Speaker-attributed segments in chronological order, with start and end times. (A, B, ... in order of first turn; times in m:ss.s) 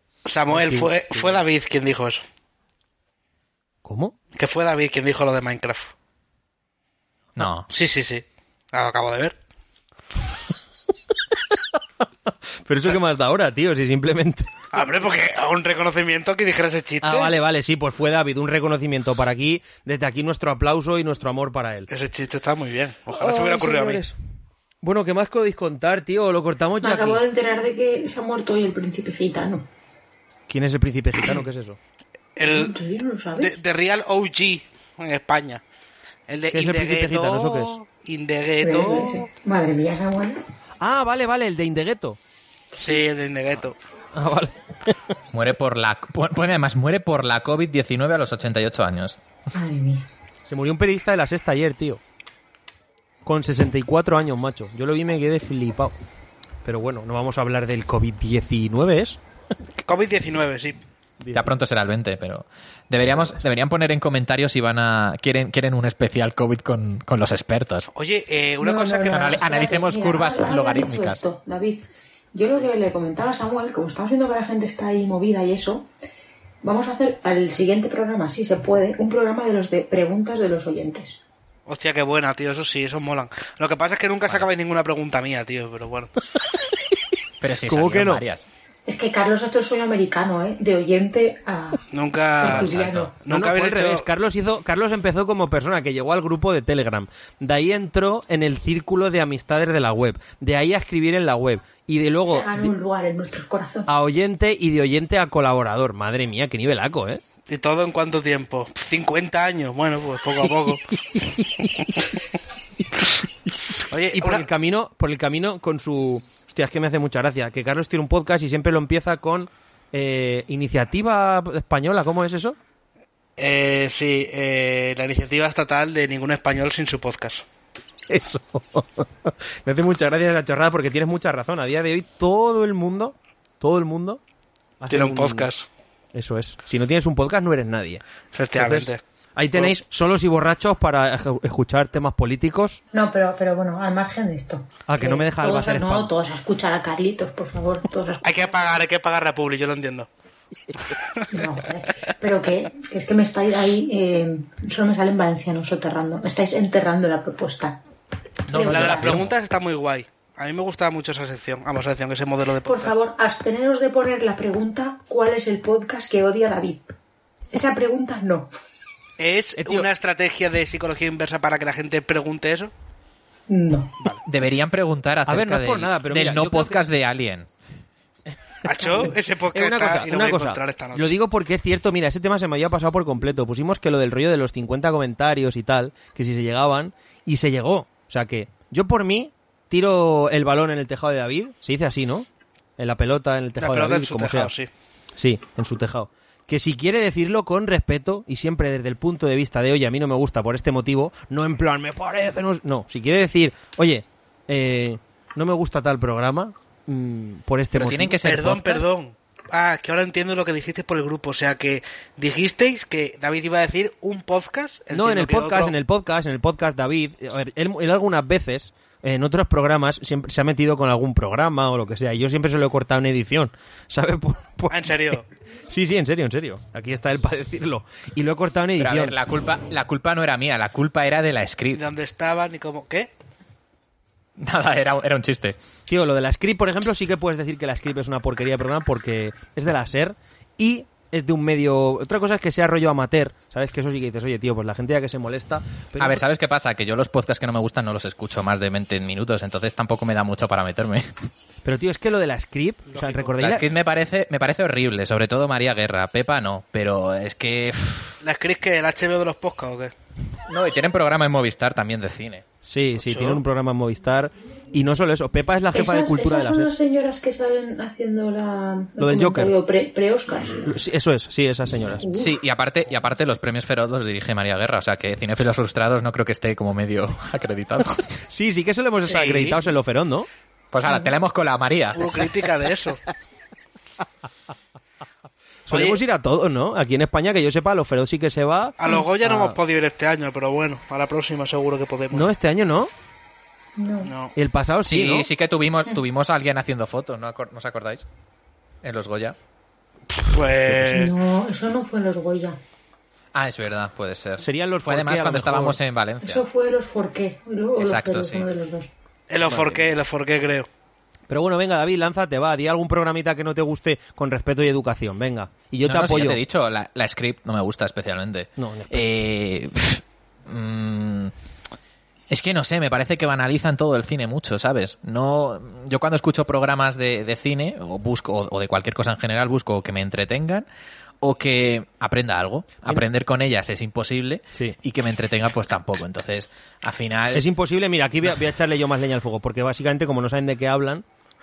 0:00.3-0:02.2 A
0:00.5-0:01.4 B
0:03.8-0:04.1 B
0:04.4-0:05.9 A
0:07.4-0:07.7 C
0:07.7-0:09.4 A
0:12.7-0:14.5 B
0:14.7-0:17.3 A
0:17.0-0:21.9 B
0:21.9-0:24.0 A
0:23.1-0:24.2 B
0:24.8-0:27.2 B
0:26.8-0:29.7 D
0:30.5-0:31.8 B
0:32.4-0:32.8 A
0:32.4-0:33.6 D
0:33.4-0:35.6 A
0:36.3-0:39.3 A
0:36.5-0:37.8 B
0:38.6-0:40.4 D
0:40.8-0:42.2 B
0:42.8-0:43.8 A
0:44.2-0:45.0 B
0:45.3-0:49.2 C
0:49.5-0:50.1 D
0:50.5-0:52.0 B
0:53.2-0:55.9 B
0:56.6-0:59.2 B
0:59.8-1:00.8 A
1:01.2-1:01.5 B
1:01.3-1:07.9 C
1:08.0-1:09.5 A
1:08.6-1:15.9 D
1:09.1-1:11.2 C
1:16.6-1:21.2 D
1:21.7-1:26.1 A
1:27.4-1:28.5 C
1:27.7-1:28.2 B
1:28.9-1:31.8 D
1:31.9-1:34.0 A
1:32.4-1:33.1 D
1:32.4-1:33.1 C
1:33.3-1:42.7 B
1:42.3-1:43.9 D
1:43.9-1:47.2 B
1:47.5-1:50.9 A
1:53.8-1:54.5 A
1:54.1-2:02.6 B
2:03.4-2:07.4 A
2:08.1-2:14.2 B
2:14.8-2:15.5 B
2:14.9-2:15.7 A
2:16.1-2:18.0 B
2:18.3-2:19.0 A
2:18.6-2:22.8 B
2:22.9-2:28.8 D
2:24.9-2:26.1 B
2:28.2-2:30.1 A
2:31.3-2:37.8 D
2:38.5-2:39.3 C
2:38.5-2:39.2 D
2:38.7-2:42.9 A
2:42.6-2:46.9 D
2:47.5-2:48.5 D
2:49.2-2:52.7 A
2:49.6-2:49.9 B
2:53.5-2:53.9 D
2:54.2-2:57.5 C
2:55.3-2:56.8 B
2:58.6-3:01.2 A
2:58.8-3:12.3 B
3:12.8-3:14.5 B
3:13.6-3:14.7 A
3:15.2-3:28.3 B
3:27.7-3:28.9 C
3:28.2-3:35.8 A
3:34.9-3:45.2 B
3:44.7-3:45.3 A
3:45.7-3:49.2 B
3:48.8-3:51.9 C
3:51.7-3:53.1 A
3:54.4-3:55.6 C
3:55.9-4:06.2 B
4:06.0-4:11.1 C
4:11.6-4:13.6 B
4:12.9-4:13.4 A
4:13.4-4:18.2 C
4:18.2-4:19.9 A
4:20.5-4:22.4 C
4:22.6-4:26.7 B
4:23.0-4:23.4 A
4:25.7-4:30.7 D
4:29.0-4:29.5 B
4:30.7-4:32.1 B
4:32.0-4:32.3 D
4:32.1-4:38.2 C
4:38.3-4:40.3 B
4:39.0-4:39.6 A
4:40.7-4:42.2 C
4:41.9-4:43.0 A
4:45.7-4:49.6 B
4:45.7-4:46.0 A
4:48.8-4:52.3 A
4:52.1-4:52.9 B
4:53.8-4:54.1 D
4:54.0-4:54.3 A
4:54.4-4:55.3 B
4:54.8-4:58.0 C
4:58.8-4:59.4 C
5:00.2-5:01.1 A
5:00.9-5:02.6 D
5:03.3-5:06.4 C
5:04.4-5:05.8 B
5:06.2-5:08.9 D
5:07.8-5:08.5 C
5:09.3-5:10.7 A
5:09.5-5:09.8 B
5:11.3-5:16.4 B
5:15.8-5:21.3 C
5:18.6-5:19.1 B
5:22.3-5:30.7 C
5:31.2-5:37.5 C
5:37.3-5:41.0 B